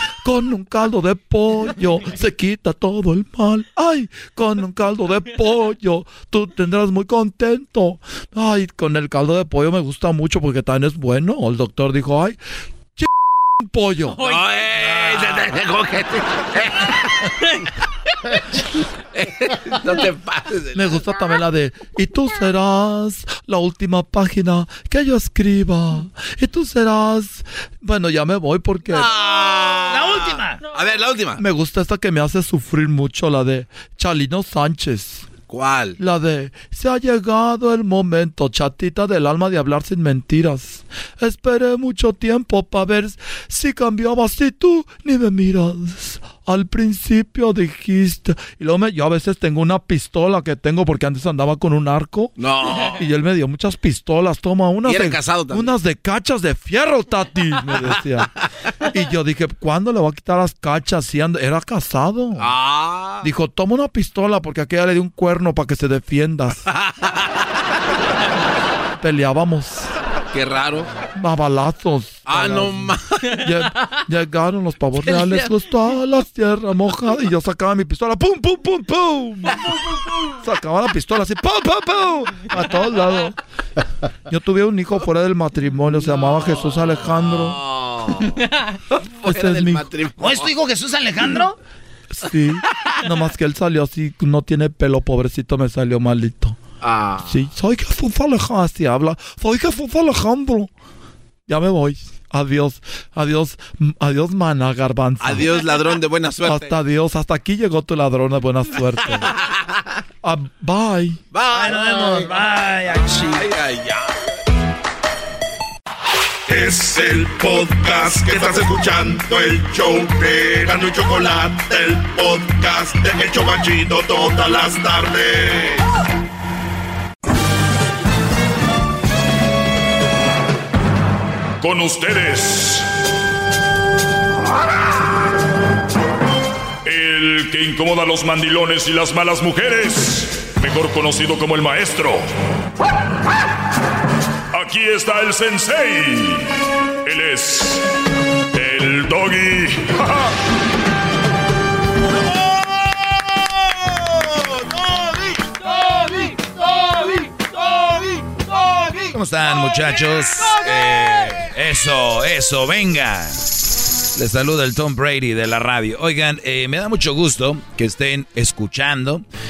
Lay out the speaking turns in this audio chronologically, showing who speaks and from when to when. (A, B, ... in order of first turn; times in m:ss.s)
0:00.2-0:12.4 A
0:13.0-0:14.2 A
0:14.2-0:16.9 B
0:19.1-0:21.2 B
0:20.7-0:29.1 A
0:28.9-0:31.4 B
0:29.9-0:30.6 C
0:31.4-0:35.3 A
0:35.5-0:36.0 B
0:36.0-0:52.3 A
0:52.4-0:53.0 B
0:52.9-0:58.3 A
0:54.8-0:55.7 B
0:58.9-1:02.5 A
1:02.4-1:03.3 B
1:03.2-1:06.6 A
1:06.7-1:07.2 B
1:09.0-1:09.9 A
1:10.3-1:10.9 B
1:11.2-1:19.7 A
1:12.3-1:13.2 B
1:15.0-1:15.5 B
1:20.4-1:23.4 A
1:24.3-1:27.6 A
1:27.2-1:28.4 B
1:29.2-1:30.5 B
1:29.2-1:29.9 A
1:30.2-1:31.6 C
1:32.1-1:36.6 A
1:36.8-1:37.4 B
1:37.2-1:40.7 A
1:41.5-1:45.7 A
1:45.2-1:46.8 B
1:46.4-1:49.3 A
1:49.2-1:49.6 B
1:50.2-1:51.2 A
1:51.3-1:51.9 B
1:51.5-1:53.5 C
1:53.4-1:54.2 B
1:56.5-2:05.8 D
2:11.6-2:12.9 E
2:16.8-2:22.3 E
2:24.5-2:26.5 E
2:27.0-2:27.8 E
2:28.5-2:30.3 E
2:34.0-2:39.1 B
2:39.1-2:43.5 F
2:40.4-2:41.4 B
2:44.2-2:49.2 F